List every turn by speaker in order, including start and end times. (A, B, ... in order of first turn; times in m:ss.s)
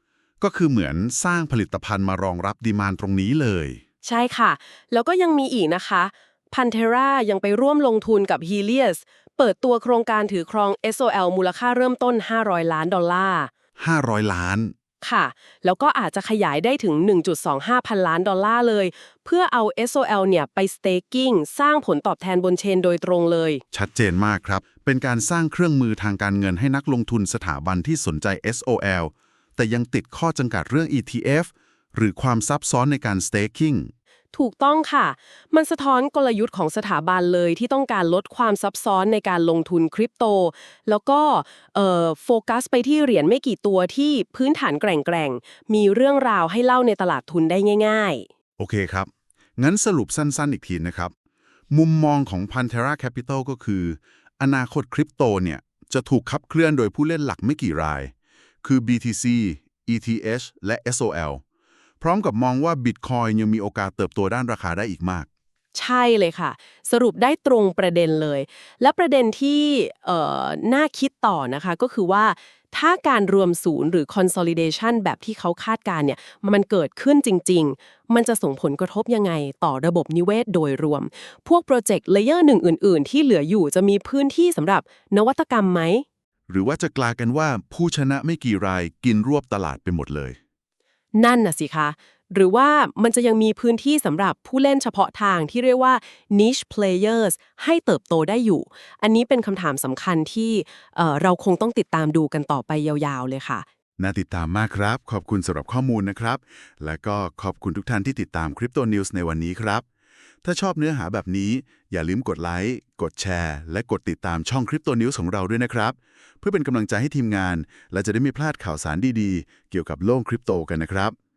0:00.4-0:03.8 A
0:04.0-0:13.5 B
0:13.8-0:14.7 A
0:15.0-0:23.6 B
0:23.7-0:33.9 A
0:34.3-0:48.3 B
0:48.6-0:51.1 A
0:51.7-0:58.1 A
0:58.6-1:01.4 A
1:02.0-1:05.3 A
1:05.7-1:26.0 B
1:26.5-1:30.4 A
1:31.1-1:43.6 B
1:44.0-1:49.8 A
1:50.4-2:01.1 A